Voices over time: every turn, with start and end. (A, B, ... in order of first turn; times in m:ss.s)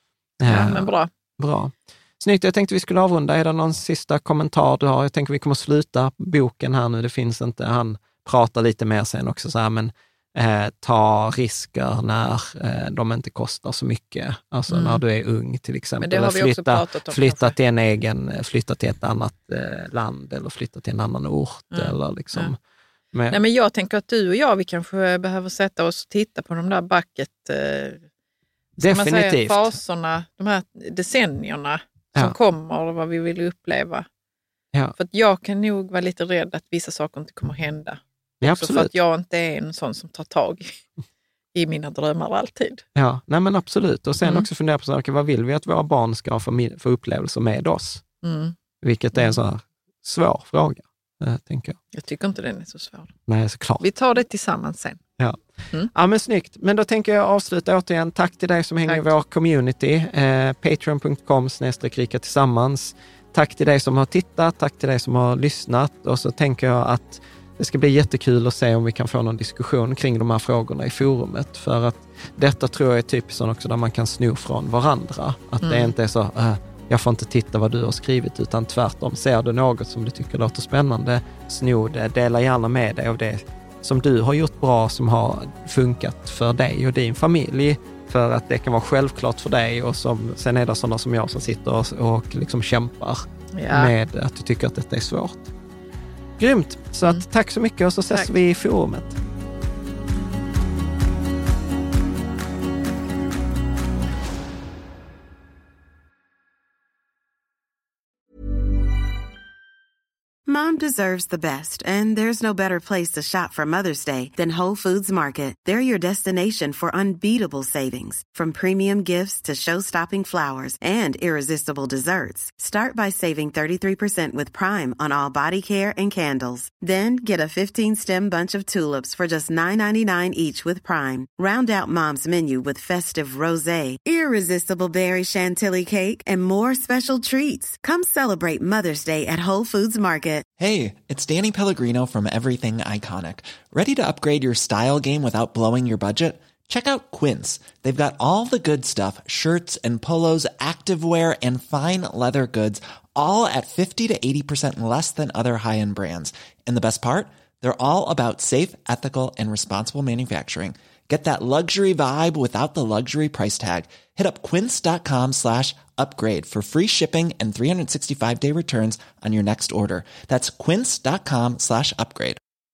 0:00.4-0:22.6 A
0:00.4-0:01.1 B
0:14.7-0:15.0 B
0:16.0-0:17.6 B
0:21.7-0:22.5 B
0:23.1-0:23.4 A
0:23.3-0:28.0 B
0:28.8-0:29.8 A
0:28.8-0:34.1 B
0:35.0-0:40.8 B
0:38.4-0:38.9 A
0:41.5-0:42.8 B
0:43.0-0:48.0 A
0:48.2-0:48.6 B
0:48.8-0:51.8 A
0:51.9-0:53.1 B
0:53.3-0:53.8 A
0:53.8-0:55.0 B
0:55.2-1:35.5 A
1:15.6-1:15.9 B
1:33.5-1:33.9 B
1:36.4-1:39.2 A
1:50.5-2:20.4 C
2:20.6-2:52.4 D